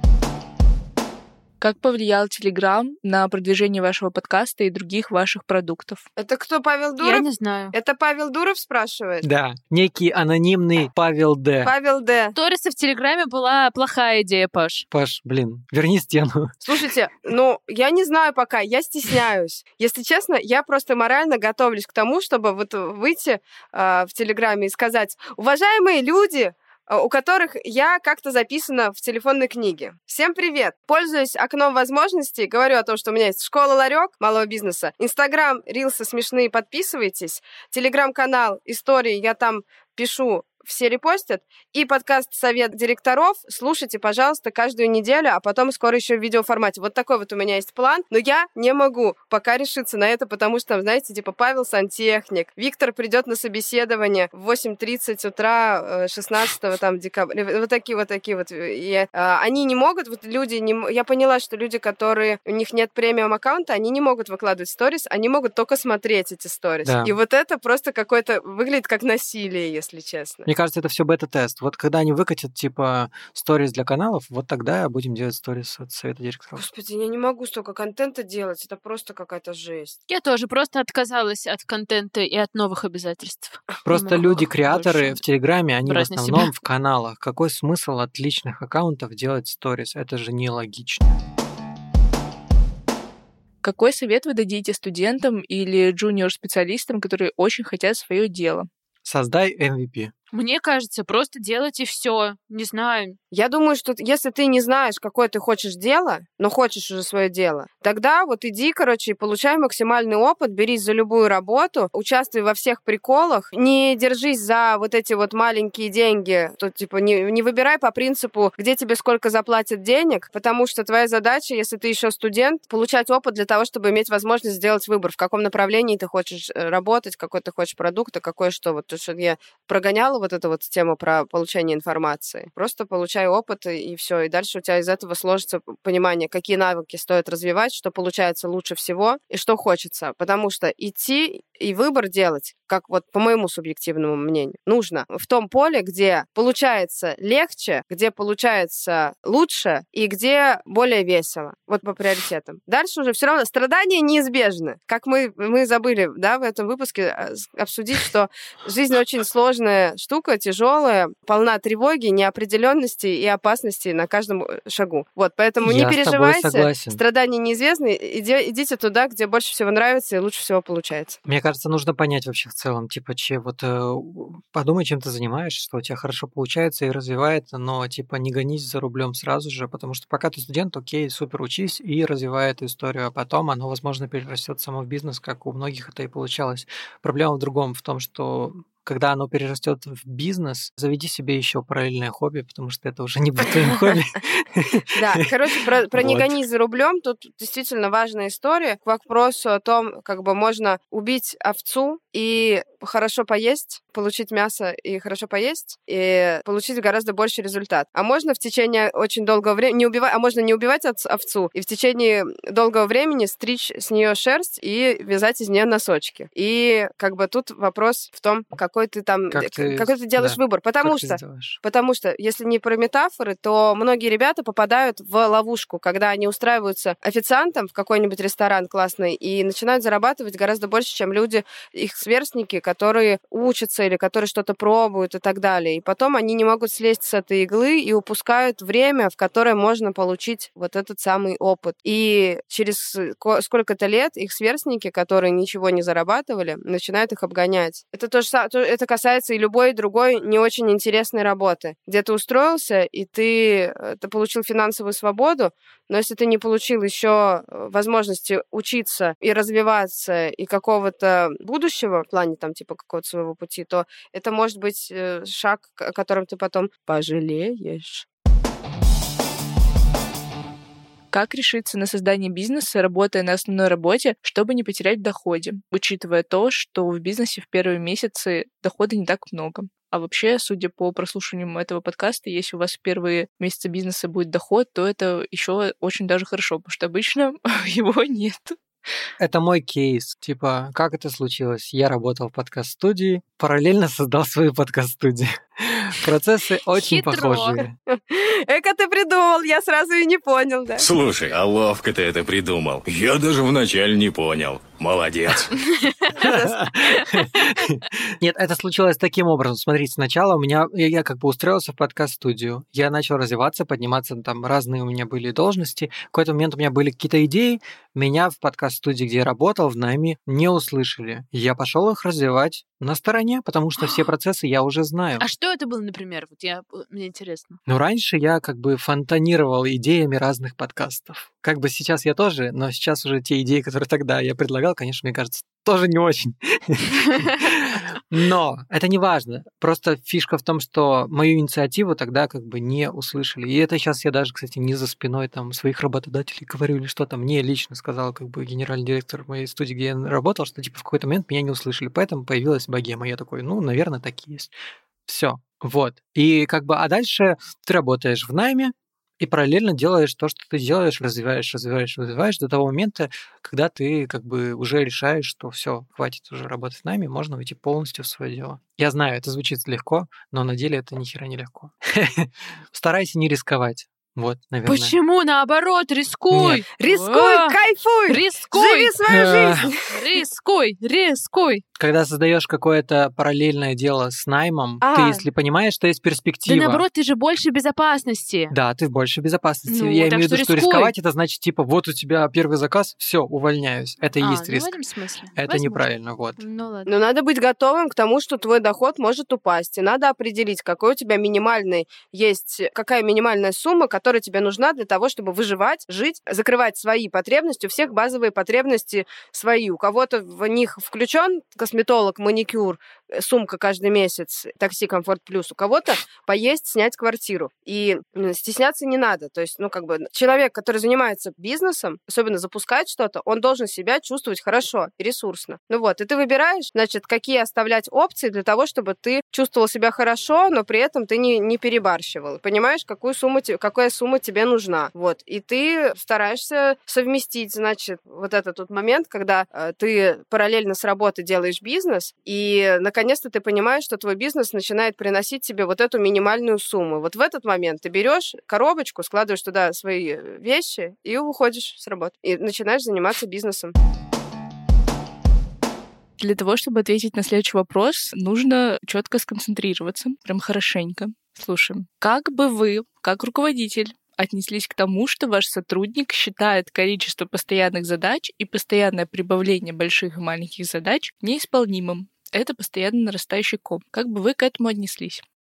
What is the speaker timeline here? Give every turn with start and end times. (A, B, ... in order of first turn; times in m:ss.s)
0:01.6-0:06.0 A
0:06.2-0:09.3 B
0:07.0-0:07.7 C
0:09.2-0:11.7 D
0:11.6-0:12.3 B
0:12.3-0:14.8 C
0:14.9-0:16.6 D
0:16.6-1:10.5 B
1:06.8-1:07.1 D
1:10.4-1:16.6 D
1:16.6-1:20.0 B
1:20.1-1:25.2 C
1:23.8-1:31.2 D
1:25.8-1:26.5 C
1:33.6-1:38.7 A
1:39.0-1:40.1 D
1:40.3-1:43.2 C
1:43.3-2:51.2 B
2:45.6-2:47.0 D
2:51.2-3:14.9 D
3:14.9-4:28.0 B
3:16.0-3:16.3 D
3:39.3-3:41.6 D
4:31.1-4:48.6 A
4:49.2-4:57.7 D
4:56.7-4:57.6 C
4:57.9-5:00.9 B
5:00.8-5:05.6 E
5:05.6-5:06.1 C
5:06.1-5:06.6 B
5:06.2-5:25.2 D
5:25.2-5:27.6 C
5:27.7-5:54.5 D
5:55.1-6:14.9 D
6:14.6-6:19.0 C
6:16.3-6:16.6 D
6:16.8-6:19.9 B
6:19.0-6:19.7 D
6:19.8-6:21.6 C
6:21.8-6:26.8 D
6:24.8-6:25.2 B
6:26.5-6:28.5 C
6:28.5-6:34.7 D
6:29.7-6:30.9 C
6:34.2-6:36.9 C
6:35.4-6:36.4 D
6:36.8-7:33.7 B
7:36.2-7:55.2 A